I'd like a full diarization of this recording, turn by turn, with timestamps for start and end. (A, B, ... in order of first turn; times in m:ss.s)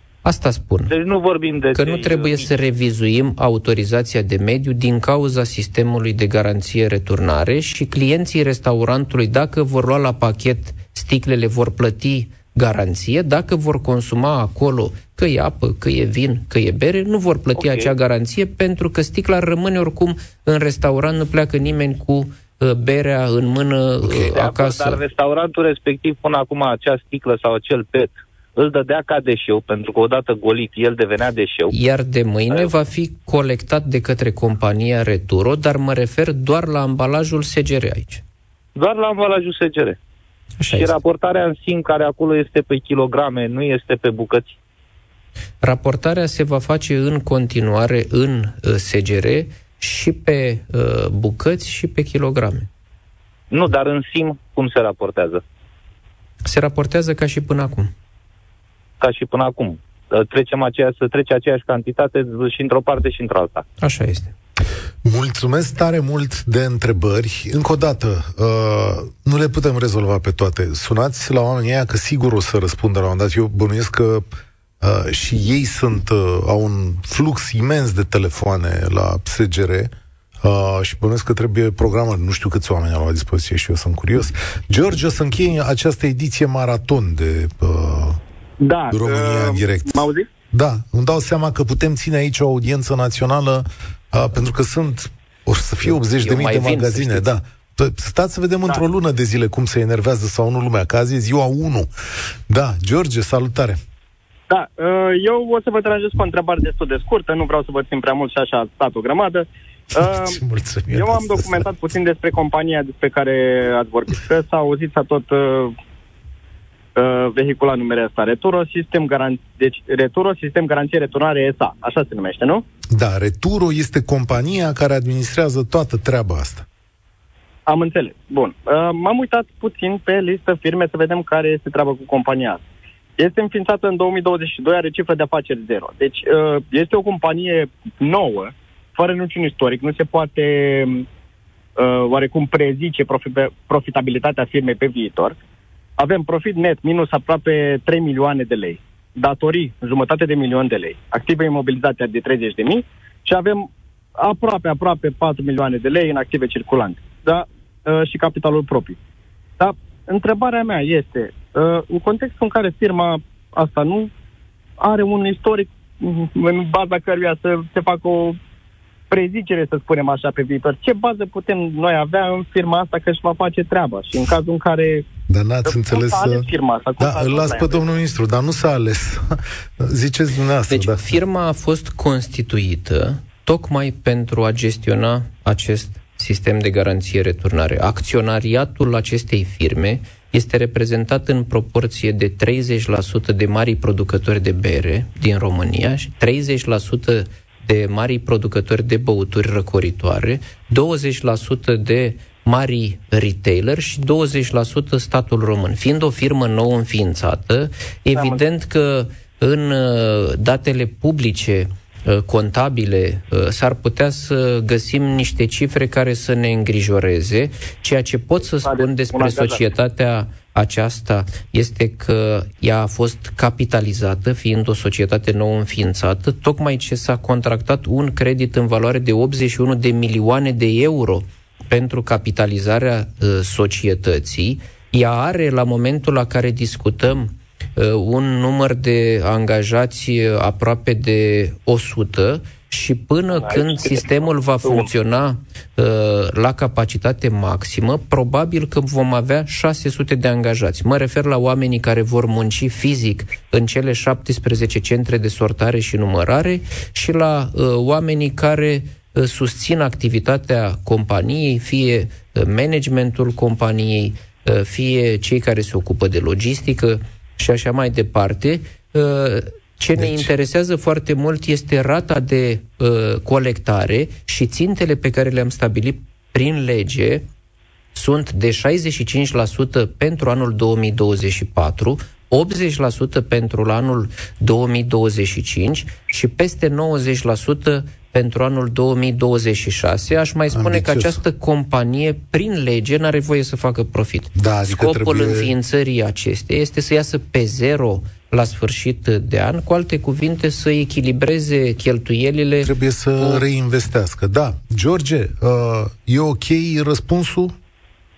0:00.2-0:00.9 A
0:00.9-0:02.5 B
0:01.7-0:25.0 A
0:17.6-0:17.9 B
0:24.0-0:24.3 C
0:24.2-0:31.7 B
0:31.7-0:38.2 A
0:38.8-0:40.0 B
0:40.6-0:40.9 A
0:40.6-0:44.6 B
0:45.6-0:52.7 A
0:53.5-0:55.4 B
0:56.4-0:57.9 A
0:59.0-1:03.6 B
1:03.8-1:04.3 A
1:05.0-1:14.2 C
1:14.8-1:28.2 C
1:28.6-1:30.3 D
1:28.9-1:41.9 C
1:35.8-1:37.3 A
1:42.5-1:43.8 C
1:44.5-1:55.7 D
1:49.9-1:51.9 C
1:57.0-2:02.6 D
2:02.9-2:06.6 C
2:07.7-2:12.6 D
2:13.2-2:21.0 D
2:21.8-2:25.3 D
2:26.0-2:39.0 D
2:39.6-2:44.1 D
2:44.8-2:48.4 D
2:49.1-2:55.0 D
2:55.3-2:56.4 C
2:55.6-2:57.9 D
2:57.0-3:01.2 C
3:00.7-4:37.2 A
3:38.6-3:39.6 D
4:03.3-4:04.8 D
4:30.0-4:30.3 C
4:37.9-5:03.4 A
4:50.5-4:51.2 C
4:54.3-4:55.5 C
5:02.6-5:07.5 C